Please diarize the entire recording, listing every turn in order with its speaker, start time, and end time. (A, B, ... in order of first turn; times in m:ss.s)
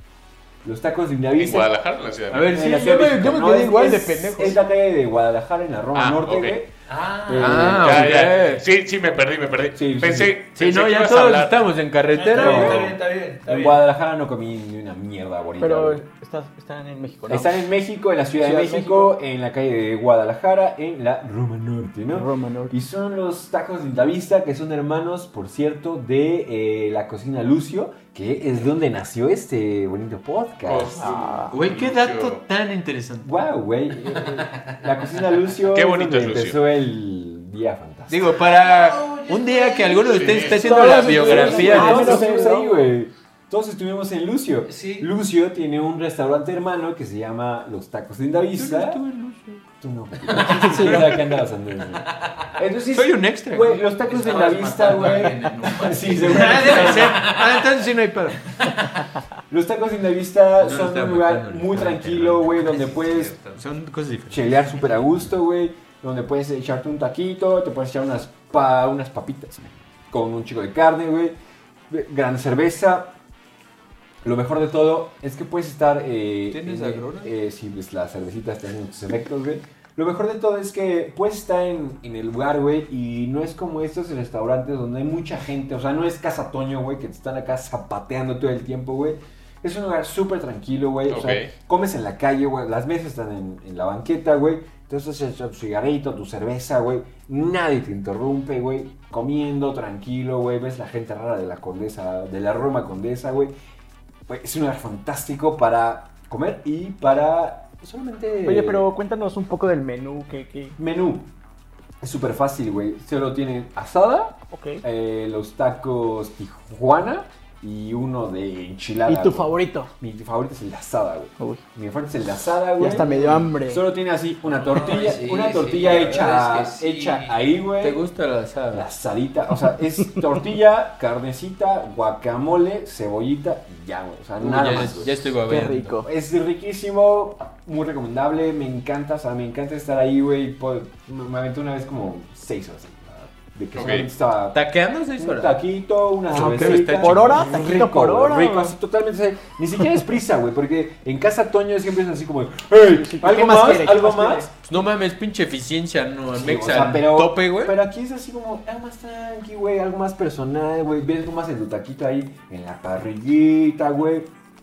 0:00.6-0:01.7 A
0:01.4-0:02.5 B
0:02.3-0:04.6 C
0:02.5-0:06.7 A
0:06.0-0:06.6 B
0:06.9-0:07.8 D
0:07.3-0:08.3 A
0:07.3-0:08.6 C
0:07.6-0:11.6 B
0:09.8-0:10.4 A
0:10.6-0:12.9 C
0:12.1-0:13.8 D
0:12.3-0:16.1 A
0:15.6-0:17.6 E
0:17.3-0:31.2 A
0:18.4-0:19.1 E
0:22.1-0:22.8 E
0:30.6-0:32.4 B
0:31.0-0:31.6 E
0:31.5-0:33.3 C
0:33.2-0:38.4 A
0:34.2-0:34.8 C
0:35.6-0:36.6 B
0:38.1-0:42.6 C
0:38.5-0:41.7 D
0:40.1-0:40.6 B
0:40.4-0:42.9 E
0:40.9-0:49.0 A
0:44.7-0:45.1 D
0:48.6-0:49.6 C
0:49.8-0:57.4 A
0:50.3-0:51.4 C
0:50.6-0:51.1 E
0:52.9-0:53.8 C
0:54.0-0:57.5 D
0:56.2-0:58.6 C
0:59.5-1:03.4 A
1:00.6-1:04.5 C
1:04.3-1:11.4 A
1:11.9-1:13.2 A
1:14.2-1:43.5 A
1:16.5-1:17.3 C
1:31.1-1:31.5 B
1:44.3-1:48.9 A
1:48.4-1:50.8 E
1:50.8-1:51.3 A
1:52.0-2:08.0 A
1:54.5-1:54.8 E
1:59.1-1:59.9 E
2:02.8-2:03.9 E
2:03.0-2:03.5 D
2:04.5-2:07.4 D
2:07.7-2:08.9 C
2:08.7-2:15.3 A
2:14.4-2:16.0 C
2:15.4-2:16.1 E
2:16.0-2:24.6 A
2:23.8-2:24.1 B
2:24.5-2:25.6 C
2:25.2-2:34.5 A
2:26.3-2:27.8 C
2:26.5-2:28.8 E
2:33.0-2:34.5 E
2:34.6-2:37.8 C
2:36.3-2:44.3 A